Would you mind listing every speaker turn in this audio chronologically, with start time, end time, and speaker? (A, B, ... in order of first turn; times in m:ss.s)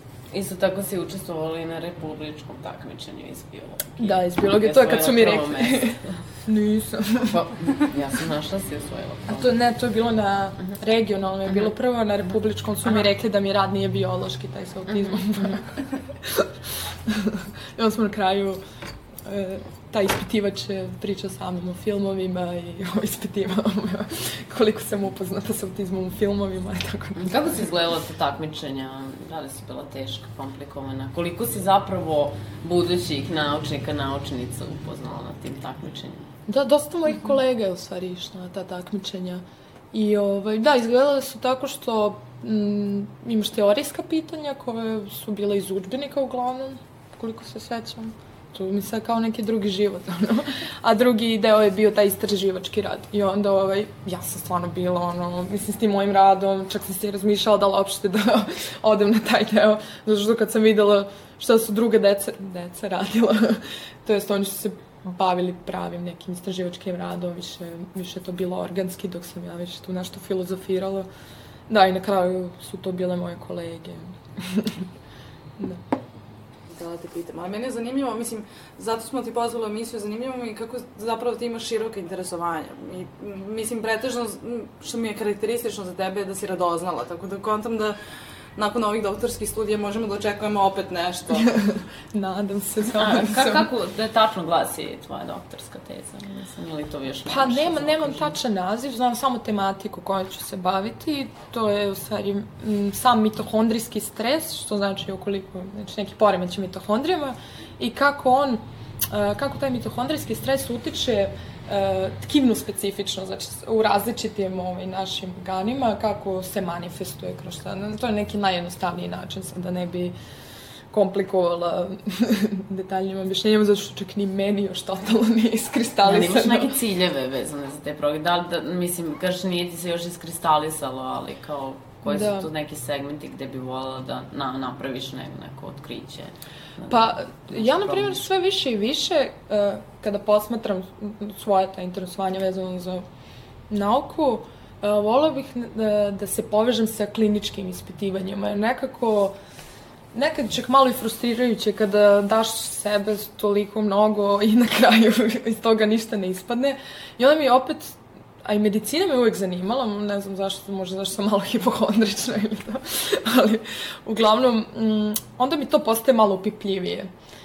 0:00.3-0:06.2 A
0:04.0-0:07.4 B
0:07.3-0:09.5 A
0:09.3-0:16.5 B
0:17.1-0:18.6 B
0:19.2-0:27.6 B
0:27.2-0:36.3 A
0:36.5-1:11.1 B
1:11.7-1:14.8 B
1:16.7-1:28.0 C
1:28.6-1:31.5 C
1:31.6-1:33.7 B
1:32.9-1:38.4 A
1:37.3-2:00.2 B
2:00.9-2:06.7 B
2:06.0-2:18.2 A
2:12.0-2:12.5 B
2:16.9-2:23.0 B
2:23.7-2:29.4 B
2:30.1-2:47.1 B